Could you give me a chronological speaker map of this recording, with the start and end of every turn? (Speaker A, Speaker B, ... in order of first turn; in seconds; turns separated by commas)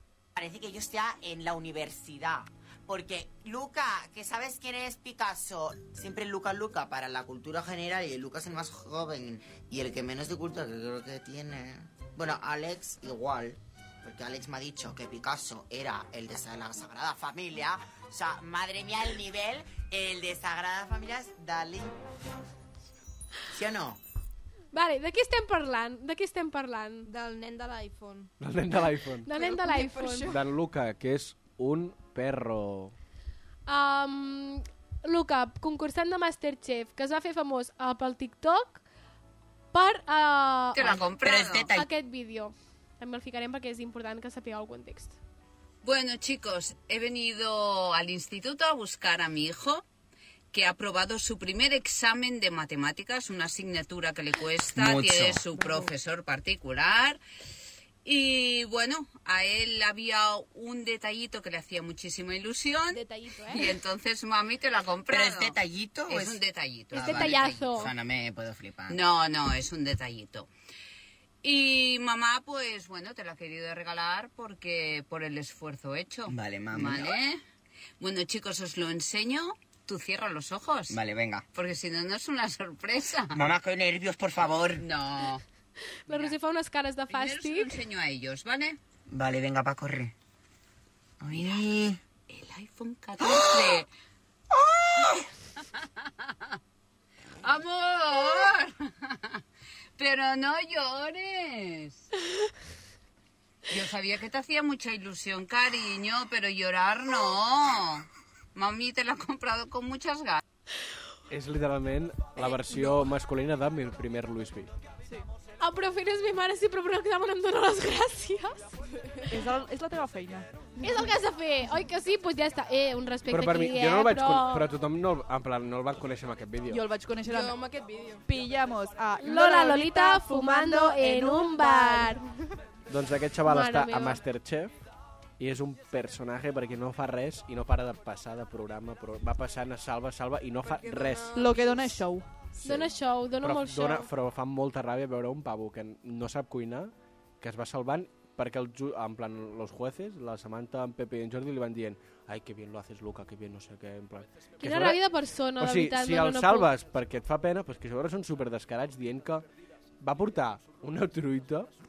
Speaker A: 0.4-21.9, Speaker A: 23.5-24.0, Speaker B: 24.7-27.1, Speaker C: 27.1-28.3, Speaker D: 28.4-29.3, Speaker B: 29.2-30.3, Speaker C: 29.3-30.4, Speaker D: 30.3-33.0, Speaker B: 33.7-38.8, Speaker B: 39.7-41.0, Speaker E: 40.8-41.7, Speaker A: 40.8-41.9, Speaker B: 41.7-45.2, Speaker E: 45.8-49.8, Speaker E: 50.5-57.2, Speaker A: 54.7-55.4, Speaker F: 55.5-55.8, Speaker E: 58.0-68.0, Speaker C: 62.9-63.7, Speaker A: 65.1-69.0, Speaker B: 66.9-67.9, Speaker E: 68.9-70.5, Speaker E: 71.4-77.4, Speaker A: 76.3-77.2, Speaker E: 78.0-81.0, Speaker A: 80.9-81.5, Speaker E: 81.5-83.5, Speaker A: 83.3-84.8, Speaker E: 84.8-85.4, Speaker B: 86.1-87.8, Speaker E: 86.1-86.4, Speaker E: 87.1-88.8, Speaker A: 89.1-90.1, Speaker A: 91.2-92.0, Speaker E: 92.3-93.9, Speaker E: 96.0-96.5, Speaker E: 97.4-99.4, Speaker E: 100.0-102.1, Speaker E: 103.7-110.4, Speaker D: 111.3-114.7, Speaker B: 115.6-118.7, Speaker F: 119.3-121.2, Speaker B: 120.8-124.7, Speaker D: 123.3-126.8, Speaker F: 126.7-127.6, Speaker C: 127.2-128.3, Speaker F: 128.3-132.4, Speaker B: 129.2-132.2, Speaker D: 132.9-134.8, Speaker B: 133.4-134.2, Speaker D: 135.4-141.4, Speaker C: 140.6-142.1, Speaker F: 141.3-142.3, Speaker B: 142.6-144.1, Speaker D: 142.6-159.4, Speaker B: 154.6-156.7, Speaker D: 160.0-161.7